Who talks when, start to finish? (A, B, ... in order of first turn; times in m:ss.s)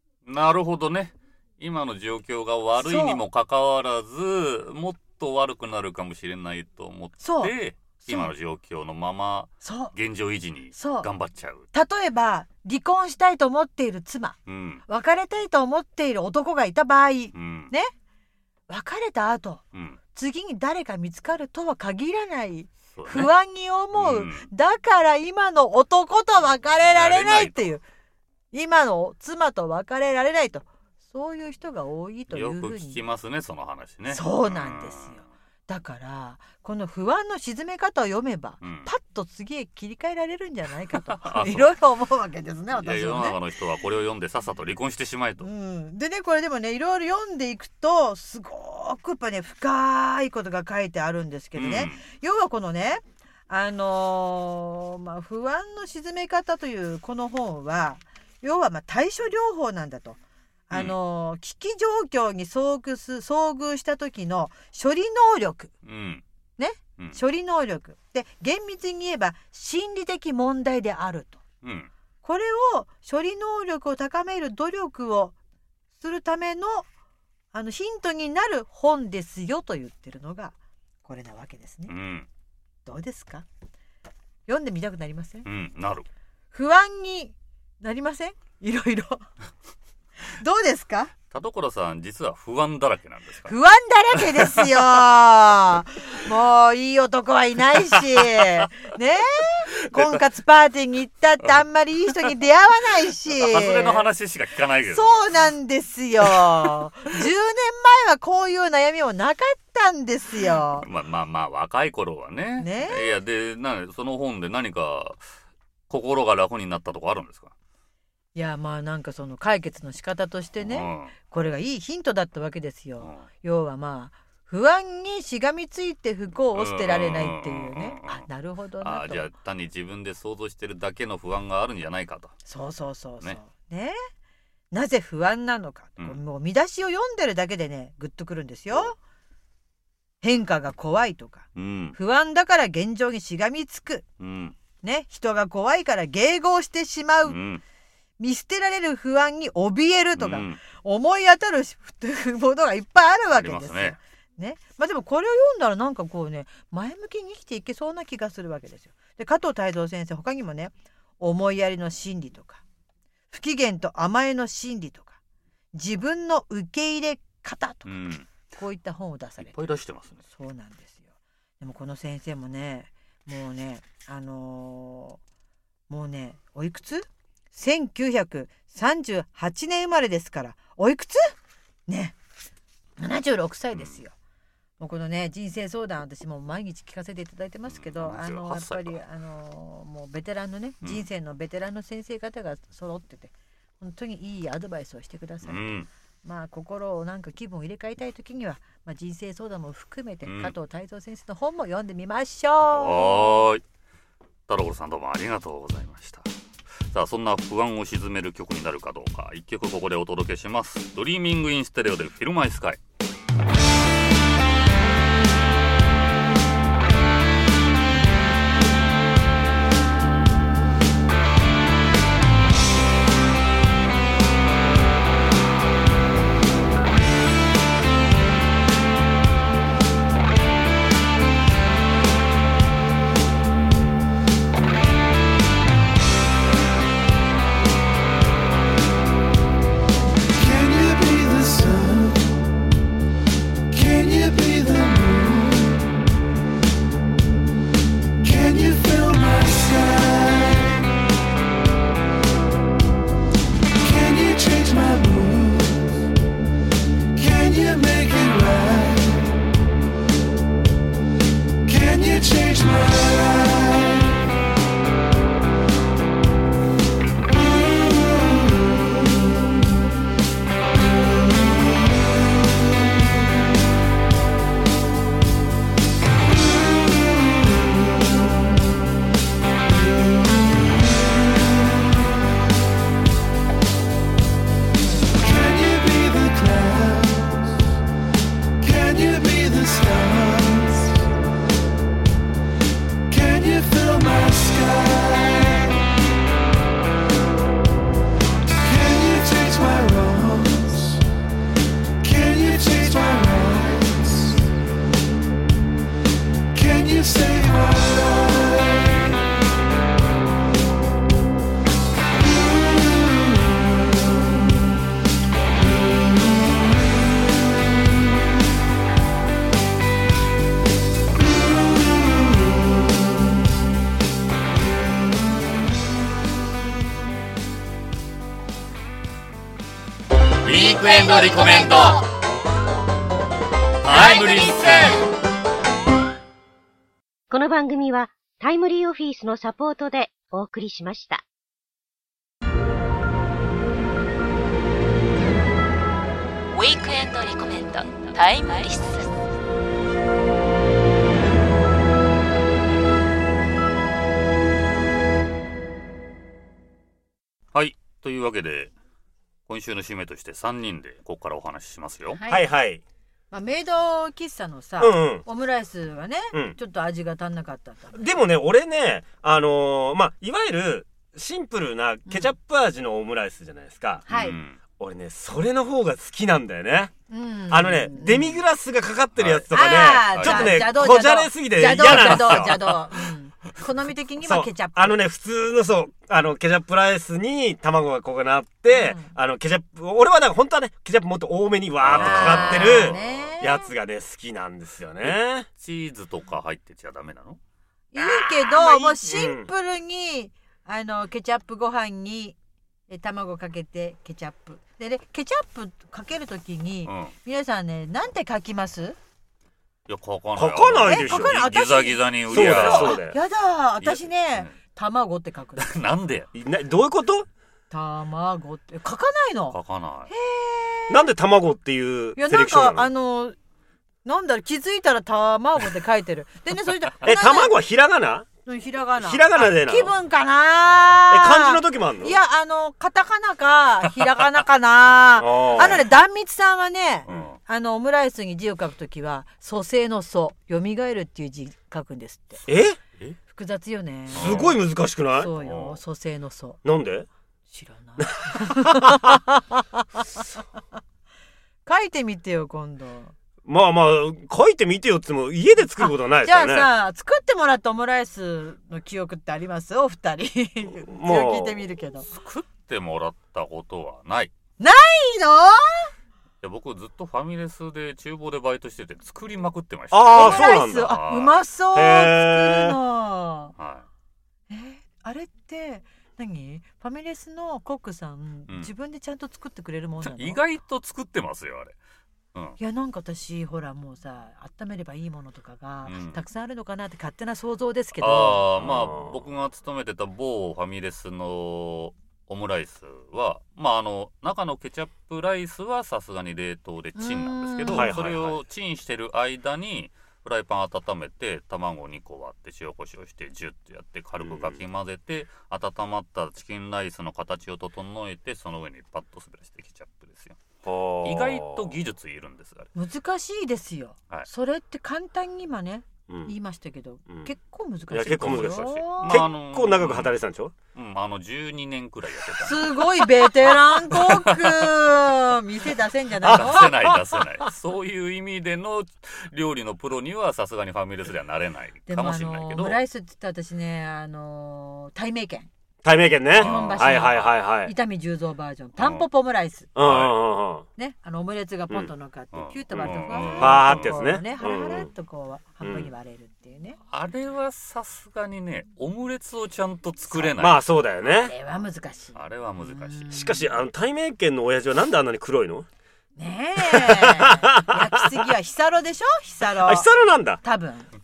0:00.2-0:11.6 A
0:02.8-0:03.2 B
0:07.2-0:08.3 B
0:09.6-0:09.9 B
0:10.7-0:11.1 B
0:11.7-0:14.4 B
0:14.5-0:14.8 A
0:14.9-0:17.9 B
0:17.3-0:17.7 A
0:18.7-0:19.6 B
0:20.1-0:27.8 B
0:22.9-0:23.3 A
0:23.9-0:24.5 A
0:26.9-0:27.7 A
0:28.5-0:33.0 B
0:32.3-0:35.2 A
0:34.1-0:43.4 B
0:38.6-0:38.9 A
0:40.9-0:41.7 A
0:42.7-0:45.5 A
0:45.4-1:00.2 B
0:51.6-0:52.0 A
1:00.7-1:05.7 B
1:05.8-1:06.2 A
1:06.6-1:11.4 B
1:11.6-1:11.9 A
1:12.2-1:15.3 B
1:16.0-1:16.9 B
1:17.5-1:21.9 B
1:21.9-1:22.3 A
1:22.8-1:23.4 B
1:24.5-1:25.4 B
1:25.4-1:26.0 A
1:26.5-1:29.2 B
1:30.2-1:31.1 B
1:31.3-1:33.5 A
1:33.4-1:44.0 B
1:34.1-1:34.6 A
1:43.3-1:45.2 A
1:44.9-1:50.9 B
1:50.6-1:55.2 A
1:52.6-1:53.2 B
1:55.9-1:57.5 A
1:58.3-2:09.3 B
2:00.6-2:01.1 A
2:06.5-2:08.2 A
2:08.8-2:12.3 A
2:12.4-2:14.0 B
2:14.7-2:19.0 B
2:20.2-2:24.0 B
2:21.5-2:22.0 A
2:24.2-2:24.6 A
2:24.8-2:27.4 B
2:27.2-2:27.6 A
2:28.2-2:42.6 B
2:30.2-2:30.6 A
2:33.3-2:34.0 A
2:43.3-2:45.2 B
2:45.7-2:49.5 B
2:47.8-2:48.3 A
2:49.4-2:50.2 A
2:50.3-2:51.0 B
2:51.6-2:55.2 B
2:55.9-3:01.3 B
3:01.9-3:02.2 B
3:03.0-3:04.1 B
3:04.8-3:15.6 B
3:07.7-3:09.0 A
3:15.4-3:15.9 A
3:16.2-3:23.4 B
3:20.2-3:20.5 A
3:22.7-3:23.6 A
3:24.5-3:32.8 A
4:00.9-4:02.0 B
4:04.6-4:04.9 B
4:09.1-4:10.4 B
4:14.4-4:15.0 B
4:17.6-4:18.8 B
4:45.7-4:47.3 B
4:49.1-4:50.8 B
4:53.7-4:55.4 B
4:58.9-5:00.7 B
5:02.6-5:03.6 B
5:30.4-5:32.1 A
5:33.8-5:35.0 A
5:34.4-5:34.9 C
5:37.3-5:41.2 D
5:46.5-5:49.1 C
5:57.5-5:58.7 A
5:59.5-6:02.2 A
6:02.2-6:02.5 B
6:02.3-6:02.8 E
6:03.3-6:08.0 B
6:04.8-6:05.2 E
6:07.9-6:14.0 E
6:12.1-6:12.3 B
6:14.1-6:14.4 B
6:14.1-6:14.6 A
6:14.8-6:16.9 E
6:17.1-6:18.4 B
6:17.5-6:23.1 E
6:19.1-6:19.5 A
6:19.5-6:25.0 B
6:20.1-6:20.7 A
6:21.8-6:22.3 A
6:24.2-6:35.5 E
6:28.7-6:29.1 B
6:31.8-6:33.3 A
6:31.9-6:33.7 B
6:35.0-6:37.4 A
6:37.9-6:42.4 B
6:38.0-6:39.5 E
6:42.9-6:49.0 B
6:46.8-6:47.1 A
6:49.9-6:53.1 A
6:50.4-6:51.4 E
6:50.8-6:55.7 B
6:52.3-6:53.2 E
6:53.8-6:54.5 A
6:55.6-6:56.3 A
6:56.3-6:57.3 E
6:57.7-6:59.6 B
6:59.5-7:00.1 A
7:00.1-7:01.1 B
7:00.9-7:02.9 E
7:02.2-7:03.4 B
7:04.0-7:07.5 B
7:07.0-7:08.3 E
7:08.4-7:22.4 B
7:09.0-7:09.9 E
7:11.1-7:12.2 E
7:15.2-7:15.9 E
7:15.5-7:15.8 A
7:17.0-7:17.4 A
7:22.5-7:22.8 E
7:23.3-7:24.6 B
7:24.1-7:24.6 A
7:24.1-7:25.3 E
7:25.1-7:26.6 B
7:25.3-7:25.8 A
7:26.6-7:27.1 E
7:27.5-7:30.2 B
7:28.0-7:29.0 E
7:31.6-7:33.1 B
7:33.4-7:36.7 E
7:35.8-7:42.1 B
7:40.9-7:41.6 E
7:42.0-7:44.3 A
7:44.6-7:45.9 B
7:46.4-7:51.4 A
7:49.9-7:51.0 E
7:50.1-7:53.5 B
7:51.7-7:52.8 E
7:53.6-7:53.9 A
7:54.5-8:00.4 B
8:00.0-8:01.7 A
8:02.6-8:08.5 B
8:05.8-8:06.2 A
8:08.0-8:30.4 A
8:08.6-8:09.2 E
8:17.0-8:17.9 B
8:17.7-8:18.4 E
8:24.2-8:24.6 E
8:30.6-8:31.7 E
8:31.0-8:32.7 A
8:32.7-8:39.3 B
8:36.1-8:36.3 E
8:37.9-8:40.5 E
8:38.1-8:40.2 A
8:40.7-8:44.7 A
8:42.4-8:46.7 B
8:46.2-8:47.0 E
8:46.3-8:52.8 A
8:51.9-8:55.5 B
8:55.8-8:57.7 E
8:56.3-8:59.7 B
8:56.3-8:57.4 A
8:58.8-8:59.0 A
8:59.7-9:00.6 E
8:59.8-9:00.1 A
9:00.8-9:06.8 B
9:02.3-9:04.0 A
9:02.7-9:04.9 E
9:05.6-9:05.9 E
9:06.9-9:10.6 A
9:10.1-9:11.3 E
9:11.0-9:13.5 B
9:12.1-9:13.2 A
9:13.1-9:15.6 E
9:16.2-9:19.9 B
9:16.6-9:18.2 E
9:19.5-9:20.4 E
9:20.4-9:20.9 B